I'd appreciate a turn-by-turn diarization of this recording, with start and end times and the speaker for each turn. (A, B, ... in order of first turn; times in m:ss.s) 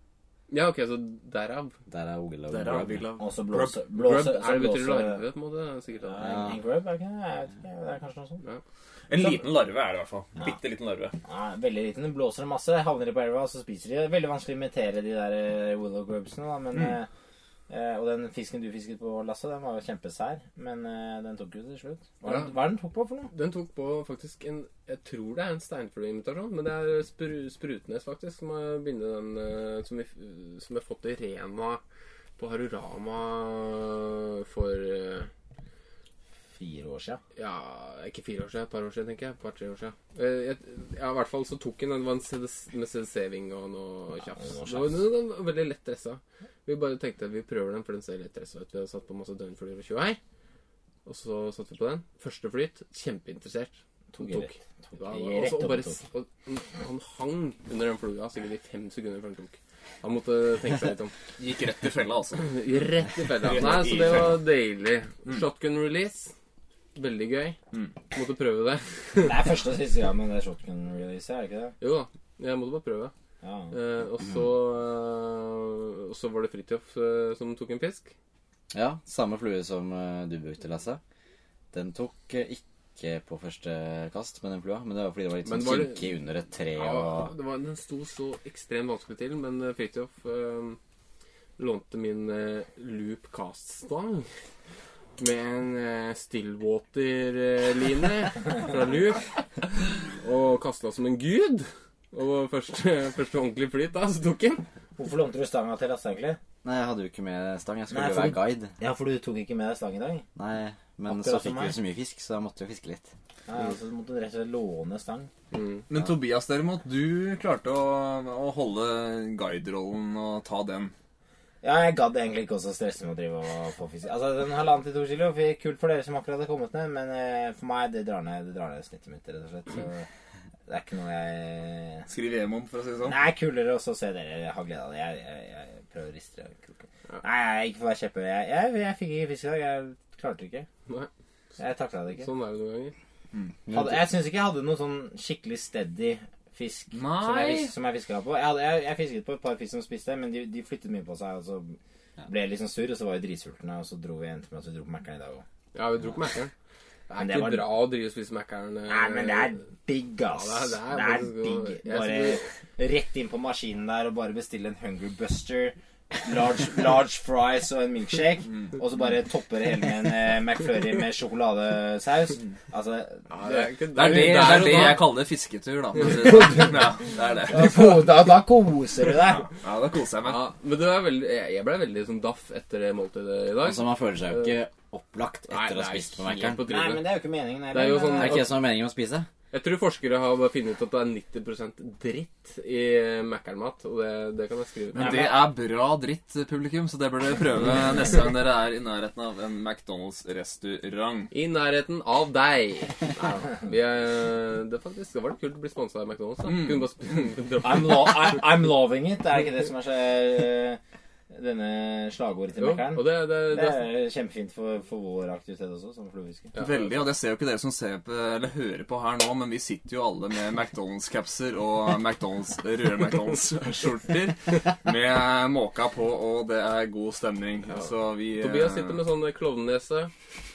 0:00.5-0:01.7 A
0:01.9-0:03.1 B
0:02.5-0:03.8 C
0:03.2-0:05.2 D
0:03.9-0:06.2 A
0:06.0-0:08.4 D
0:06.2-0:06.6 B
0:09.1-0:11.1 C
0:09.2-0:09.4 D
0:11.2-0:17.1 D
0:17.7-0:23.3 D
0:22.2-0:22.5 A
0:23.3-0:31.8 A
0:32.4-0:35.3 A
0:36.6-0:37.2 D
0:37.4-0:50.2 A
0:44.4-0:45.0 D
0:51.0-1:01.1 A
0:54.1-0:56.0 D
1:01.4-1:02.5 C
1:02.4-1:06.3 A
1:03.4-1:04.4 C
1:07.0-1:07.6 A
1:08.1-1:09.5 A
1:09.2-1:11.7 D
1:11.8-1:13.1 A
1:13.4-1:13.7 D
1:13.7-1:18.1 A
1:18.7-1:21.0 B
1:21.7-1:27.3 B
1:25.4-1:26.1 A
1:26.7-1:30.8 A
1:31.6-1:34.3 A
1:35.2-1:39.3 A
1:40.0-1:44.6 A
1:45.0-1:46.4 D
1:46.6-1:48.7 B
1:47.9-1:50.2 D
1:50.4-1:53.1 B
1:51.1-1:51.7 D
1:53.5-1:55.3 D
1:55.5-1:55.8 A
1:55.9-2:00.9 C
2:01.6-2:10.0 D
2:10.7-2:12.1 D
2:12.1-2:13.2 C
2:13.0-2:20.7 D
2:21.6-2:22.3 D
2:22.2-2:22.9 A
2:23.6-2:24.0 B
2:23.7-2:35.4 D
2:26.9-2:27.7 C
2:35.7-2:36.5 A
2:37.1-2:39.6 A
2:37.2-2:37.7 D
2:38.9-2:53.6 D
2:40.3-2:42.4 A
2:53.3-2:55.1 A
2:53.9-2:57.8 C
2:56.3-2:56.7 D
2:57.5-2:59.5 D
2:59.3-3:00.4 C
3:00.2-3:04.6 A
3:03.6-3:06.6 B
3:05.5-3:07.1 A
3:06.6-3:08.4 D
3:07.7-3:08.5 A
3:08.1-3:09.3 B
3:09.5-3:15.2 A
3:14.9-3:21.3 C
3:15.0-3:15.4 D
3:21.3-3:28.4 A
3:26.4-3:26.9 C
3:27.6-3:30.8 D
3:31.3-3:36.5 D
3:32.6-3:33.9 A
3:36.5-3:37.1 A
3:36.6-3:49.0 C
3:47.7-3:50.1 A